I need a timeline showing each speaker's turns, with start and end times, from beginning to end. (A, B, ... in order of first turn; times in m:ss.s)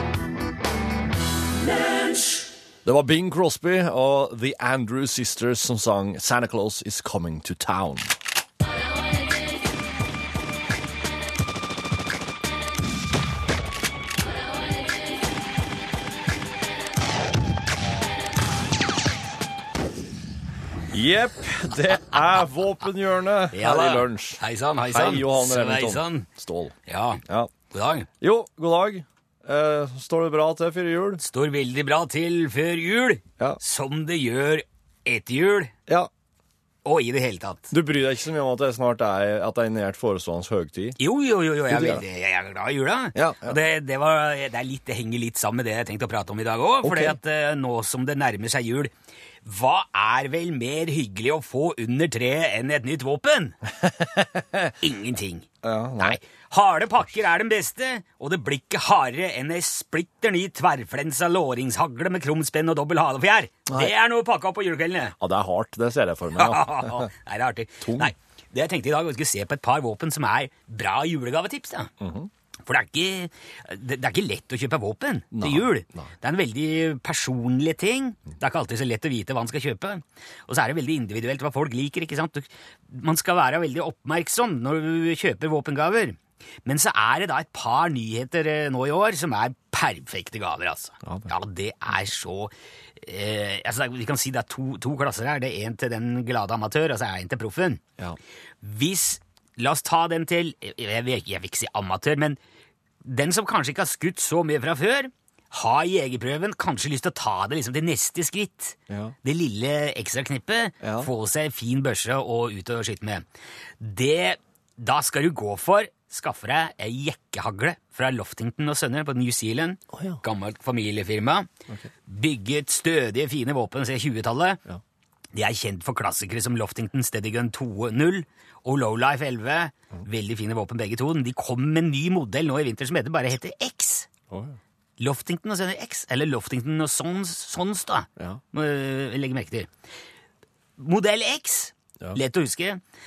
0:02.8-0:08.1 A
0:20.9-0:26.7 A
0:23.5-0:26.3 B
0:26.9-0:28.1 B
0:28.2-0:31.2 A
0:31.2-0:35.7 B
0:36.8-0:37.7 B
0:37.7-0:41.0 A
0:41.0-0:48.9 B
0:41.7-0:42.0 A
0:43.2-0:43.6 A
0:46.8-0:47.2 A
0:49.4-0:53.6 B
0:54.0-0:54.6 A
0:54.8-0:55.5 B
0:55.6-0:56.2 A
0:56.0-1:05.2 B
1:05.2-1:07.1 A
1:06.4-1:11.9 B
1:07.8-1:08.1 A
1:12.0-1:12.3 A
1:12.6-1:37.8 B
1:15.3-1:16.1 A
1:31.0-1:31.3 A
1:38.6-1:42.4 B
1:43.0-1:53.2 B
1:50.8-1:51.1 A
1:53.8-2:01.5 B
2:02.1-2:04.6 B
2:05.3-2:14.1 B
2:15.0-2:19.7 B
2:20.8-2:22.8 B